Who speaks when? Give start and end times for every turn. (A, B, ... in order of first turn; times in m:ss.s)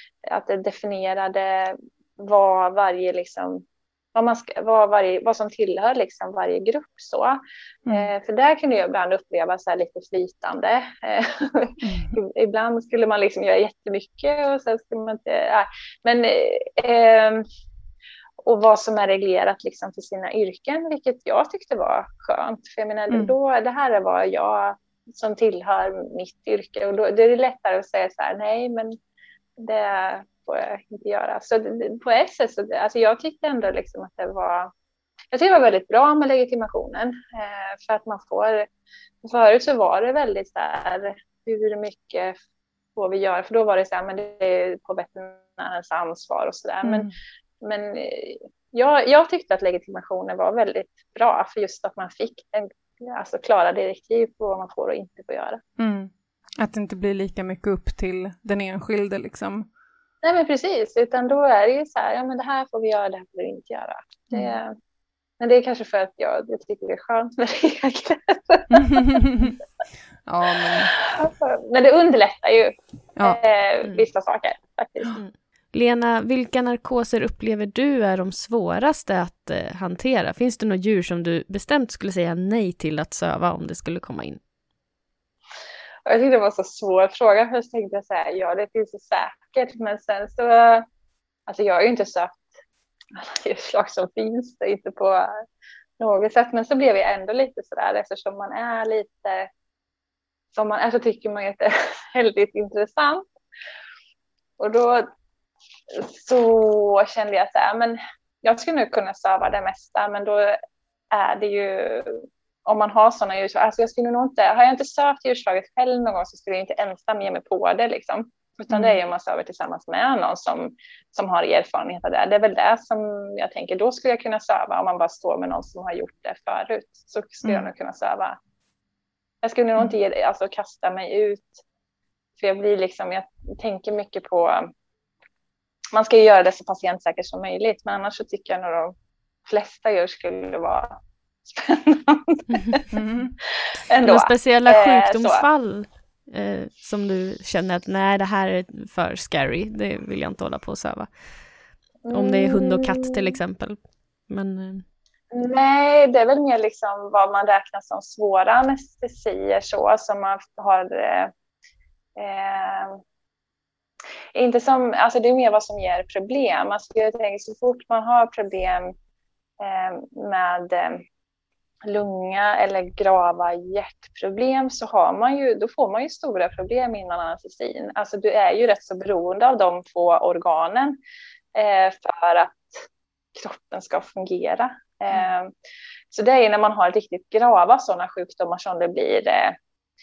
0:00.2-0:07.4 A
0:07.9-0:17.4 A
0:11.8-0:12.2 B
0:18.4-0:29.0 A
0:23.1-0:23.3 B
0:29.6-0:34.7 A
0:35.3-0:38.7 A
0:39.2-0:42.4 A
0:43.0-0:47.1 A
0:46.8-0:47.1 B
0:47.6-0:55.6 A
0:55.8-0:59.7 B
1:00.2-1:04.7 A
1:04.3-1:04.6 B
1:05.4-1:09.2 A
1:08.7-1:09.6 B
1:10.2-1:10.9 B
1:10.7-1:15.2 A
1:13.1-1:13.4 B
1:15.2-1:24.4 C
1:26.0-1:30.8 A
1:31.5-1:32.5 A
1:33.1-1:35.4 A
1:36.0-1:39.5 A
1:40.5-1:43.2 A
1:44.6-1:45.1 A
1:45.9-1:50.6 A
1:51.1-2:08.4 A
1:58.7-1:59.0 B
2:07.4-2:07.7 B
2:09.4-2:11.6 A
2:12.4-2:14.7 A
2:15.9-2:22.8 A
2:22.9-2:23.4 B
2:23.5-2:25.4 A
2:24.0-2:31.6 C
2:32.0-2:33.3 A
2:32.1-2:34.8 C
2:35.3-2:41.3 A
2:42.2-2:43.0 A
2:44.3-2:48.9 A
2:49.6-2:51.0 A
2:51.8-3:01.0 A
3:01.5-3:05.5 A
3:06.1-3:09.6 A